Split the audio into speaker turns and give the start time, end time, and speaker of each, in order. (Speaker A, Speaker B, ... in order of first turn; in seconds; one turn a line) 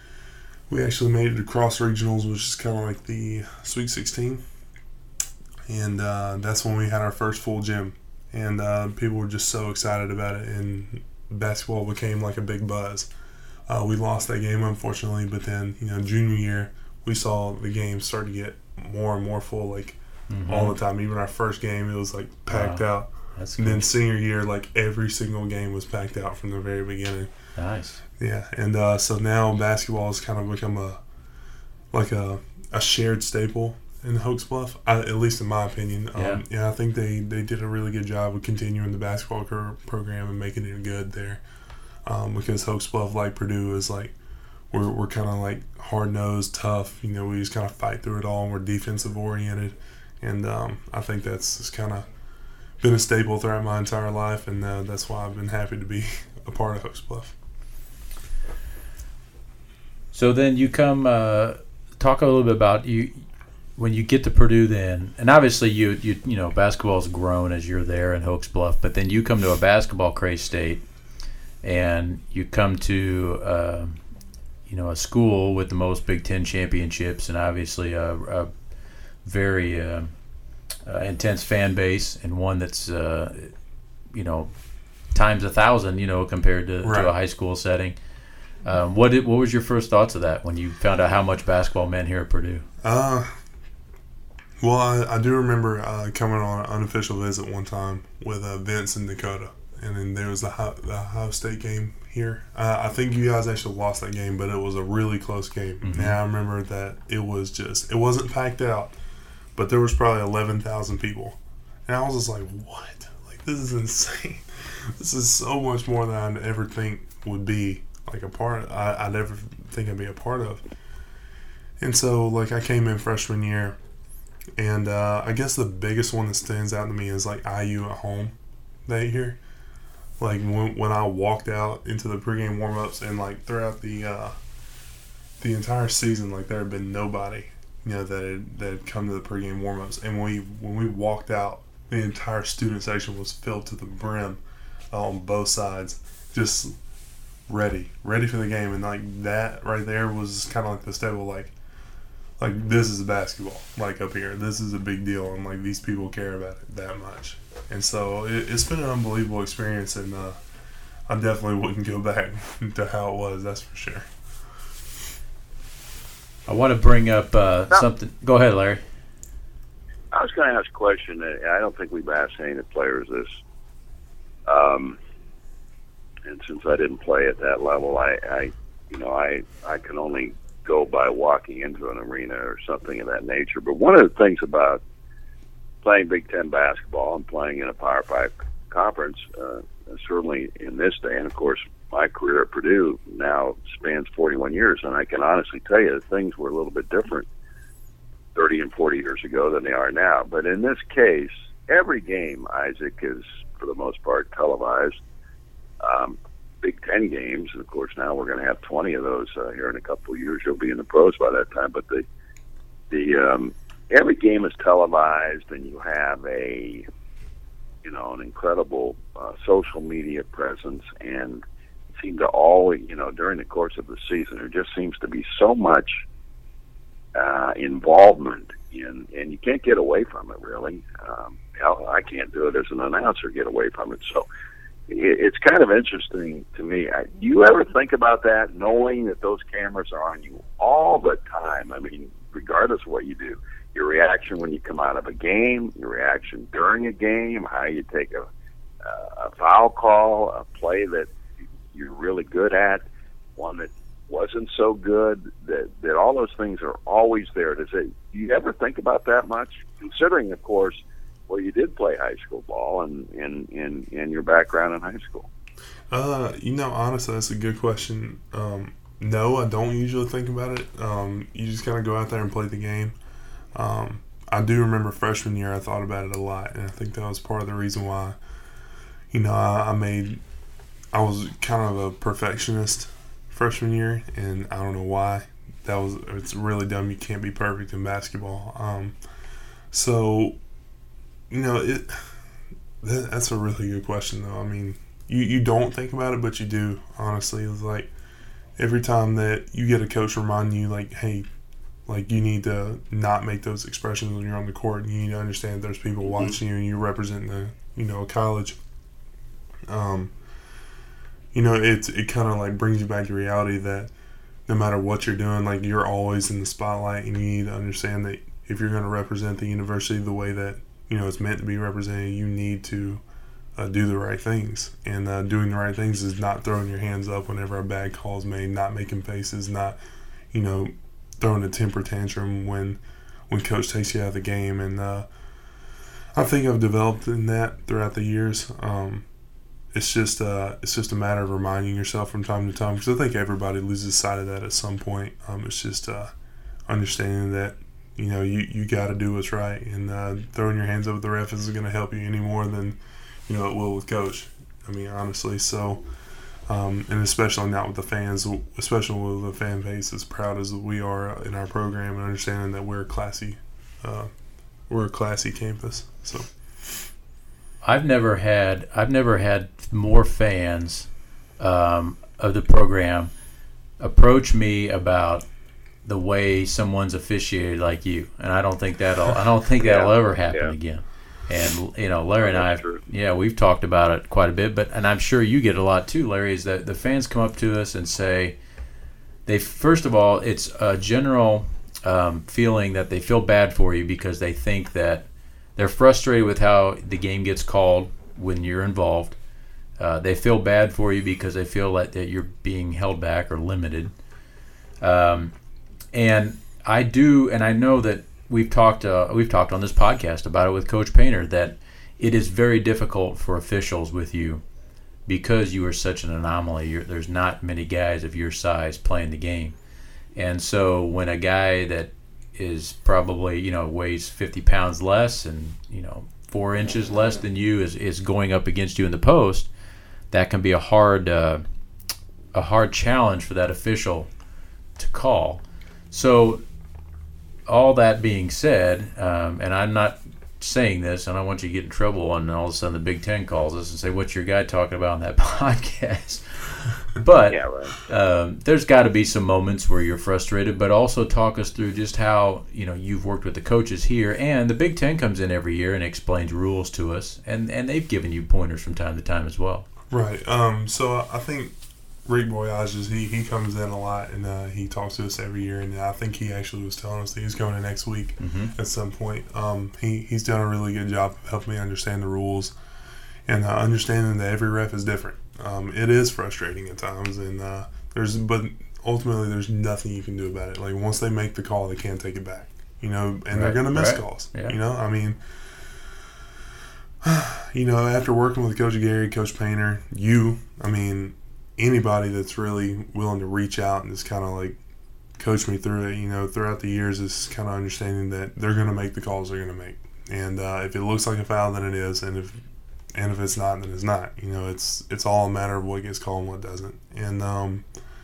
Speaker A: 0.7-4.4
Speaker A: 5.7-13.1
Speaker A: 13.7-27.3
Speaker B: 20.3-20.8
Speaker B: 22.5-22.9
Speaker B: 23.4-23.9
Speaker B: 27.6-28.0
Speaker A: 28.2-31.0
Speaker A: 31.9-41.4
Speaker B: 36.1-36.4
Speaker A: 42.1-44.1
Speaker A: 44.7-52.1
Speaker A: 52.8-57.4
Speaker B: 60.1-63.2
Speaker B: 63.8-70.8
Speaker B: 71.6-74.0
Speaker B: 74.7-78.5
Speaker B: 79.2-80.1
Speaker B: 80.9-83.5
Speaker B: 84.1-84.5
Speaker B: 85.1-88.0
Speaker A: 86.8-87.1
Speaker B: 88.7-92.7
Speaker A: 92.8-93.3
Speaker A: 94.6-108.9
Speaker B: 105.8-106.2
Speaker A: 109.6-120.6
Speaker A: 121.8-123.8
Speaker A: 124.6-128.3
Speaker A: 128.9-129.4
Speaker A: 130.2-134.3
Speaker A: 135.4-144.4
Speaker A: 144.9-146.8
Speaker A: 147.5-151.5
Speaker A: 152.4-160.4
Speaker A: 161.1-164.1
Speaker B: 166.5-168.8
Speaker C: 170.1-173.4
Speaker C: 174.5-175.0
Speaker C: 176.3-184.8
Speaker C: 185.8-197.3
Speaker C: 198.3-205.0
Speaker C: 205.8-212.1
Speaker C: 212.9-216.9
Speaker C: 217.8-221.4
Speaker C: 222.0-226.0
Speaker C: 227.2-234.3
Speaker C: 234.9-248.3
Speaker C: 248.8-251.1
Speaker C: 251.7-252.8
Speaker C: 253.4-265.3
Speaker A: 265.9-272.9
Speaker A: 273.6-278.2
Speaker A: 279.1-280.2
Speaker A: 280.9-289.0
Speaker A: 289.7-290.4
Speaker A: 291.3-292.1
Speaker A: 292.8-297.9
Speaker A: 298.6-301.3
Speaker A: 301.9-308.6
Speaker A: 309.7-310.1
Speaker A: 311.3-313.9
Speaker A: 314.5-323.0
Speaker A: 323.6-329.8
Speaker A: 330.3-335.1
Speaker A: 336.1-339.1
Speaker A: 339.7-346.1
Speaker A: 346.7-355.8
Speaker A: 356.5-364.1
Speaker A: 364.7-366.8
Speaker B: 367.6-373.1
Speaker B: 373.8-375.3
Speaker B: 375.8-388.3
Speaker C: 379.6-380.5
Speaker C: 382.2-382.8
Speaker B: 389.3-399.2
Speaker B: 399.8-403.9
Speaker B: 404.8-405.3
Speaker B: 405.9-414.4
Speaker B: 415.1-419.5
Speaker B: 420.2-429.5
Speaker B: 430.1-431.4
Speaker B: 432.3-434.1
Speaker B: 434.8-436.4
Speaker B: 437.5-459.7
Speaker C: 447.3-447.8
Speaker A: 459.9-461.5
Speaker A: 462.1-472.5
Speaker B: 468.2-468.5
Speaker A: 473.3-485.2
Speaker B: 483.3-484.6
Speaker A: 487.0-494.6
Speaker A: 495.2-502.4
Speaker A: 502.9-507.6